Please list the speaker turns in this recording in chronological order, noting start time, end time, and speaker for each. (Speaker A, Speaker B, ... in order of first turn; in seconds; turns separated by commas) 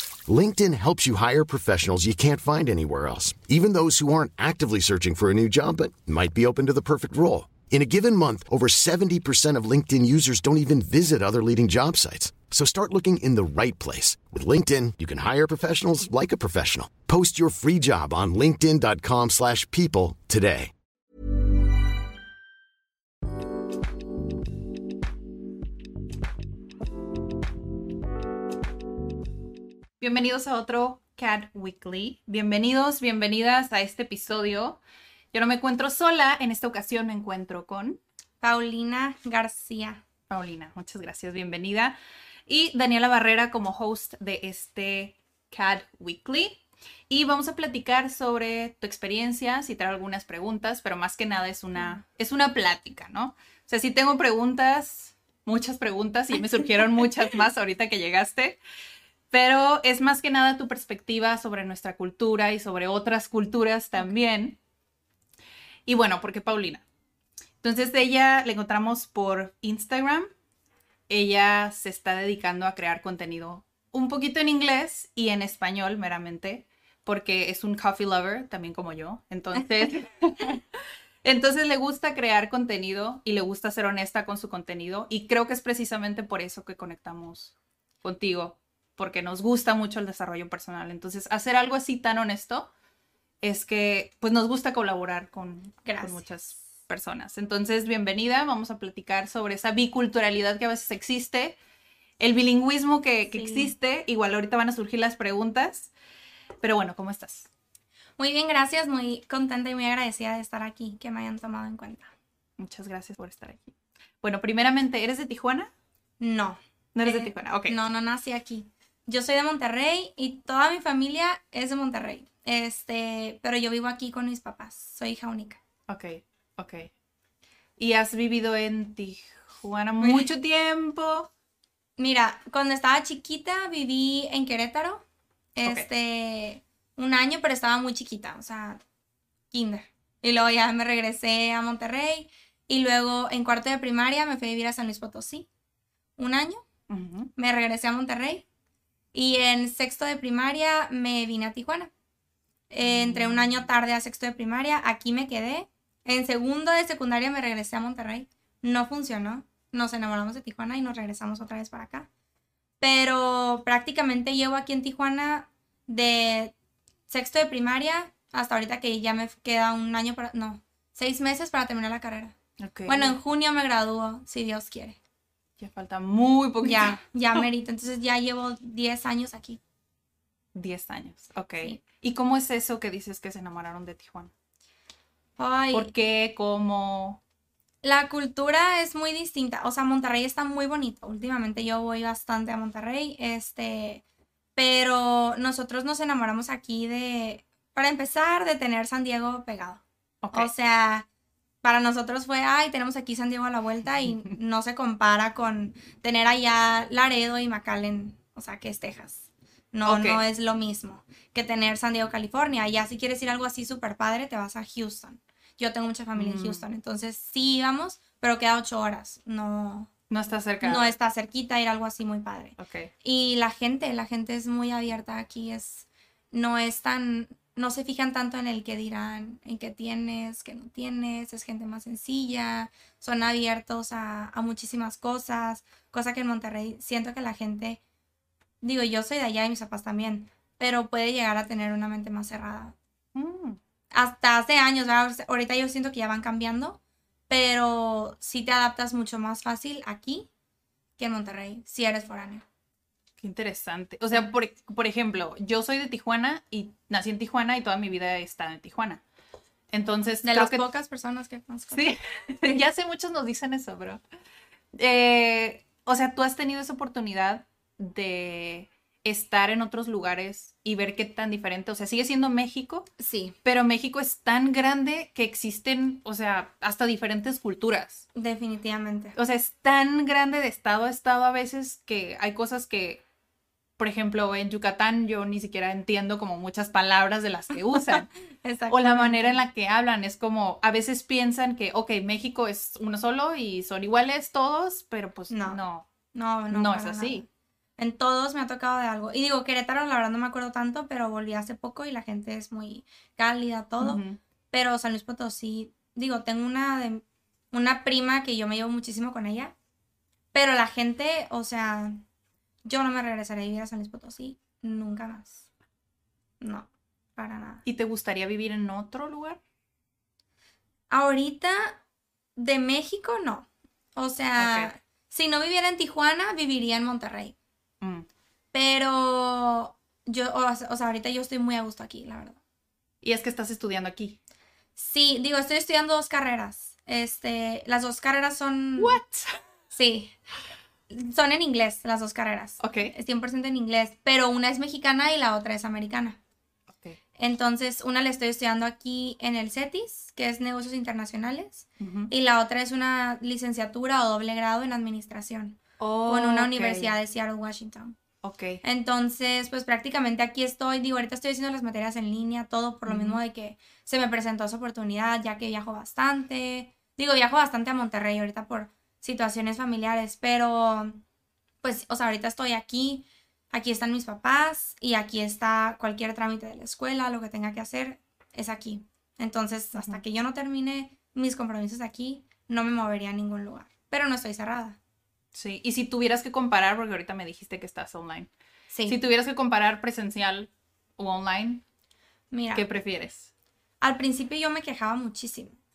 Speaker A: 0.3-20.7, Speaker B: 30.0-34.8, Speaker B: 35.3-38.0, Speaker C: 38.4-40.0, Speaker B: 40.3-42.0, Speaker B: 42.5-58.6, Speaker B: 59.3-64.6, Speaker B: 65.9-66.8, Speaker B: 67.6-70.3, Speaker B: 71.1-80.6, Speaker B: 81.2-87.5, Speaker B: 88.0-92.7, Speaker B: 93.4-101.6, Speaker C: 95.8-96.3, Speaker B: 102.2-105.9, Speaker C: 103.3-103.7, Speaker B: 106.6-107.5, Speaker C: 108.2-112.1, Speaker B: 112.6-115.7, Speaker C: 116.2-125.6, Speaker B: 117.0-117.8, Speaker B: 125.9-126.9, Speaker B: 127.8-131.3, Speaker C: 130.0-130.3, Speaker C: 132.0-135.0, Speaker C: 135.6-138.8, Speaker C: 139.5-145.5, Speaker C: 146.2-146.6, Speaker B: 146.9-147.3, Speaker C: 147.4-148.4, Speaker C: 149.1-151.9, Speaker C: 152.7-162.1, Speaker B: 152.8-153.7, Speaker C: 162.8-166.5, Speaker C: 167.1-172.3, Speaker B: 172.6-173.2, Speaker C: 172.9-175.0, Speaker B: 175.6-177.0, Speaker C: 176.6-179.6, Speaker B: 180.6-184.3, Speaker C: 185.4-185.9, Speaker B: 185.7-187.2, Speaker C: 187.8-194.0, Speaker C: 194.6-199.8, Speaker B: 200.2-200.5, Speaker C: 200.3-201.1, Speaker C: 201.6-219.9, Speaker B: 209.9-210.2, Speaker B: 216.2-216.7, Speaker B: 220.1-220.9, Speaker C: 220.6-237.8, Speaker B: 222.6-222.9, Speaker C: 238.6-242.8, Speaker B: 243.2-243.6, Speaker C: 243.9-250.3, Speaker C: 251.0-252.4, Speaker B: 253.2-259.0, Speaker B: 259.7-260.6, Speaker C: 260.2-261.9, Speaker B: 261.7-264.0, Speaker B: 264.7-272.9, Speaker C: 273.0-273.4, Speaker B: 273.4-278.0, Speaker C: 278.1-279.1, Speaker B: 279.1-283.0, Speaker B: 283.8-288.1, Speaker C: 288.0-289.4, Speaker B: 288.7-295.9, Speaker C: 295.3-295.6, Speaker C: 296.1-297.3, Speaker B: 296.5-297.2, Speaker C: 297.8-304.0, Speaker B: 303.8-304.2, Speaker C: 304.5-309.5, Speaker C: 310.3-312.0, Speaker C: 312.6-315.4, Speaker C: 316.4-317.6, Speaker B: 317.7-319.4, Speaker C: 320.9-321.8, Speaker C: 322.4-327.4, Speaker B: 324.4-324.7, Speaker B: 327.8-328.1, Speaker C: 328.5-332.4, Speaker B: 333.0-334.2, Speaker C: 334.8-339.0, Speaker B: 338.8-339.4, Speaker C: 339.7-340.1, Speaker C: 340.9-346.2, Speaker B: 342.6-342.9, Speaker C: 347.2-358.0, Speaker B: 351.8-352.1, Speaker B: 355.8-356.9, Speaker B: 358.2-358.6, Speaker C: 358.6-371.0, Speaker B: 362.9-363.2, Speaker C: 371.6-384.8, Speaker B: 379.8-380.0, Speaker B: 385.3-388.3, Speaker C: 388.7-389.0, Speaker B: 388.9-391.6, Speaker C: 392.3-392.6, Speaker B: 392.5-393.3, Speaker C: 393.8-395.6